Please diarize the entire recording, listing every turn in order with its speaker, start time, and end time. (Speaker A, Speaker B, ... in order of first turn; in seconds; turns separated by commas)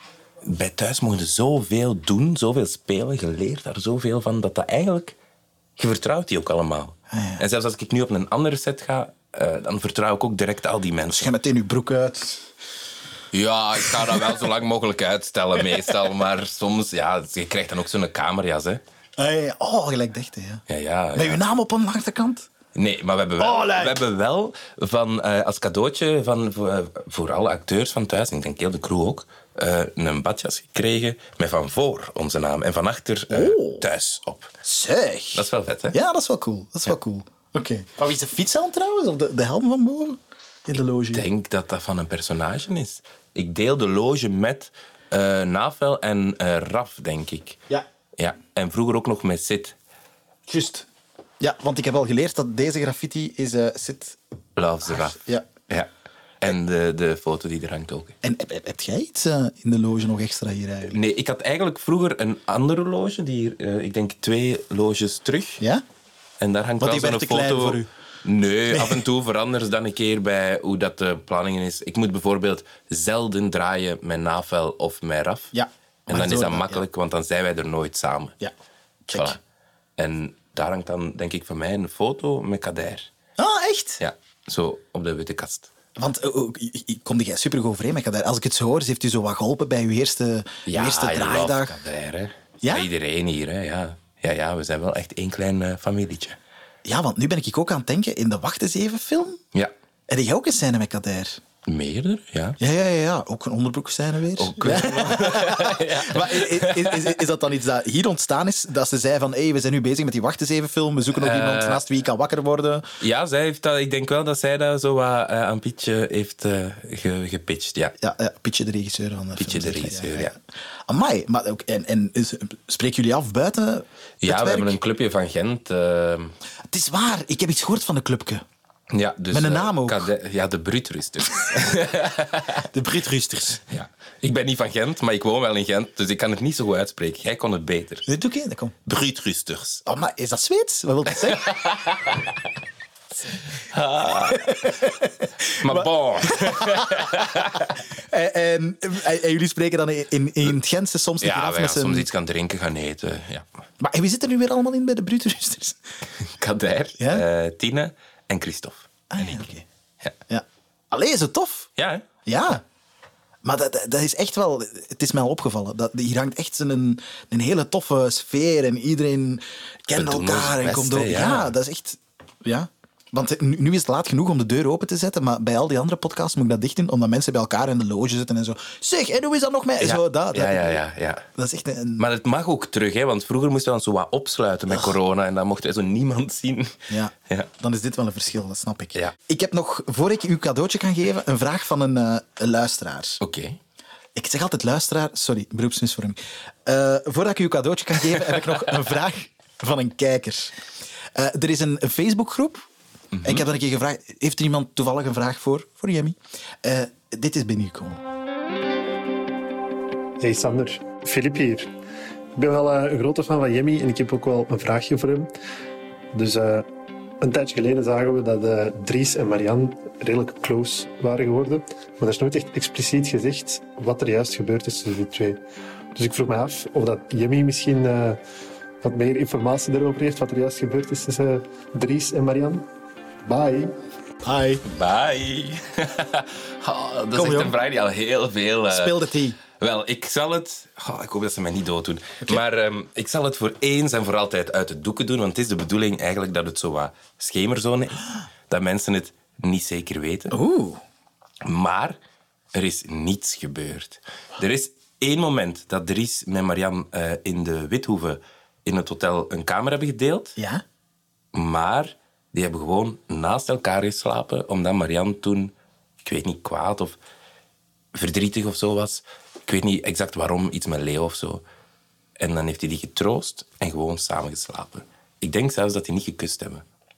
Speaker A: 0.5-5.2, Speaker A: 5.8-11.3, Speaker B: 7.1-7.4, Speaker B: 11.1-12.5, Speaker A: 13.3-18.8, Speaker B: 13.9-14.4, Speaker B: 19.2-20.6, Speaker A: 20.7-21.4, Speaker B: 21.1-22.5, Speaker A: 22.8-34.5, Speaker B: 23.4-24.0, Speaker B: 33.3-33.9, Speaker B: 34.6-41.3, Speaker A: 35.3-36.0, Speaker A: 41.1-47.6, Speaker A: 48.2-49.8, Speaker B: 50.5-50.9, Speaker B: 51.4-54.2, Speaker A: 54.6-55.9, Speaker B: 54.9-55.5, Speaker A: 56.4-58.2, Speaker B: 58.2-61.0, Speaker A: 60.9-65.6, Speaker A: 66.4-75.5, Speaker B: 66.8-67.9, Speaker B: 68.7-69.0, Speaker B: 75.5-76.8, Speaker A: 76.1-78.4, Speaker B: 79.1-79.4, Speaker A: 79.1-79.4, Speaker A: 80.0-83.1, Speaker B: 83.4-84.0, Speaker A: 84.0-85.7, Speaker B: 86.0-91.8, Speaker A: 90.7-96.4, Speaker B: 92.6-92.9, Speaker B: 96.8-99.4, Speaker B: 100.1-101.4, Speaker A: 101.7-102.6, Speaker B: 102.6-112.9, Speaker A: 104.4-107.2, Speaker A: 111.2-111.8, Speaker A: 113.0-118.0, Speaker B: 118.0-124.8, Speaker A: 119.4-120.3, Speaker A: 124.2-126.3, Speaker B: 126.7-128.4, Speaker A: 128.9-132.7, Speaker B: 129.3-130.1, Speaker B: 132.7-133.6, Speaker A: 133.7-138.1, Speaker B: 138.1-138.8, Speaker A: 138.9-139.8, Speaker B: 139.8-141.5, Speaker A: 141.2-142.3, Speaker A: 143.5-144.9, Speaker B: 144.5-145.0, Speaker A: 145.5-147.8, Speaker B: 145.7-147.2, Speaker B: 148.0-152.1, Speaker A: 151.2-153.5, Speaker B: 153.8-155.8, Speaker A: 156.3-159.5, Speaker B: 157.0-157.2, Speaker B: 159.1-159.6, Speaker B: 160.3-161.7, Speaker A: 161.8-162.1, Speaker B: 162.3-162.6, Speaker B: 163.4-180.8, Speaker A: 169.9-171.5, Speaker A: 179.8-181.3, Speaker B: 181.3-182.1, Speaker A: 182.0-186.7, Speaker B: 186.9-193.2, Speaker A: 193.2-193.6, Speaker B: 194.2-200.6, Speaker B: 201.1-202.7, Speaker A: 203.1-203.5, Speaker B: 203.2-208.0, Speaker C: 210.2-211.7, Speaker C: 212.4-215.3, Speaker C: 216.1-216.7, Speaker C: 217.2-225.4, Speaker C: 225.9-228.2, Speaker C: 228.8-232.7, Speaker C: 233.2-233.8, Speaker B: 234.2-234.6, Speaker A: 234.7-250.4, Speaker B: 237.1-237.6, Speaker B: 238.7-239.4, Speaker B: 250.3-250.8, Speaker A: 251.4-252.0, Speaker A: 252.5-260.4, Speaker B: 260.4-260.6, Speaker A: 261.3-267.0, Speaker A: 267.9-271.4, Speaker A: 272.2-276.6